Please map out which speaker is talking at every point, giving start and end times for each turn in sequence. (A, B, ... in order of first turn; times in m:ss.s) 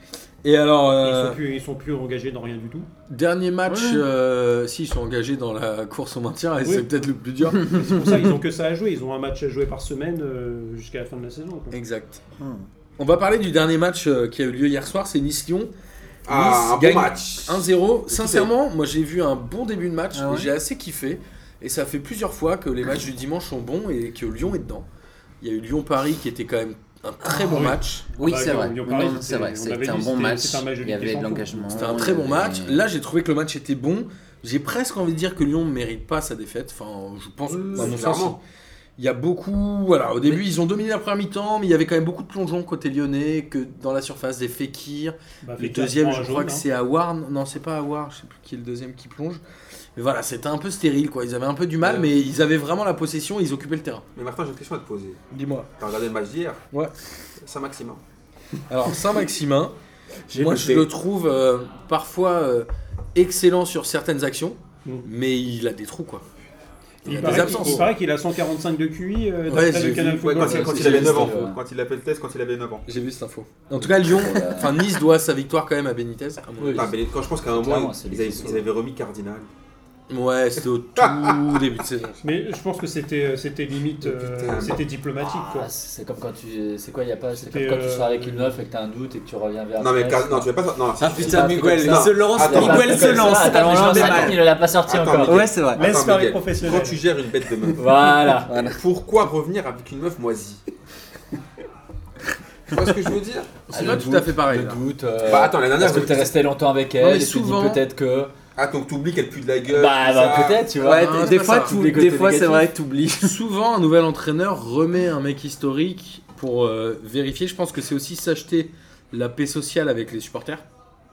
0:00.4-0:01.4 A
0:01.0-0:02.9 B
0:03.1-0:07.9 A
0:03.7-0:04.0 C
0:07.7-0:11.8 B
0:11.7-0:12.2 A
0:12.4-0:12.6 C
0:13.0-0:15.7 A
0:16.3-0:18.5 D
0:16.3-0:24.8 A
0:20.1-0:20.5 C
0:25.4-0:28.1 A
0:27.5-0:31.6 B
0:28.1-0:32.8 C
0:31.7-0:38.4 A
0:37.5-0:38.4 D
0:39.0-0:49.4 A
0:45.4-0:46.6 B
0:50.0-0:54.0 A
0:51.8-0:52.1 D
0:54.1-0:55.2 D
0:55.3-0:55.7 A
0:55.8-0:56.6 D
0:57.4-0:58.0 D
0:58.7-0:59.7 A
1:00.3-1:00.9 C
1:00.3-1:06.2 A
1:07.0-1:07.8 D
1:07.0-1:07.9 A
1:07.0-1:11.2 B
1:09.5-1:11.5 A
1:10.2-1:12.8 D
1:10.4-1:11.6 E
1:12.9-1:16.9 A
1:13.8-1:14.8 E
1:16.6-1:16.9 E
1:16.7-1:19.5 D
1:17.5-1:18.7 E
1:20.1-1:22.2 A
1:21.0-1:21.3 D
1:22.2-1:25.7 B
1:24.0-1:24.8 D
1:25.2-1:30.5 E
1:27.4-1:28.5 B
1:29.8-1:38.0 D
1:31.0-1:34.4 C
1:31.0-1:35.5 E
1:35.2-1:35.8 C
1:35.7-1:37.0 B
1:37.7-1:38.6 E
1:38.5-1:38.8 C
1:38.6-1:40.6 D
1:42.7-1:43.6 D
1:43.7-1:44.8 A
1:43.7-1:48.3 E
1:45.2-1:46.3 D
1:47.0-1:47.8 A
1:48.6-1:50.7 D
1:49.7-1:52.7 E
1:50.8-1:53.4 C
1:50.8-1:51.8 A
1:53.2-2:00.6 A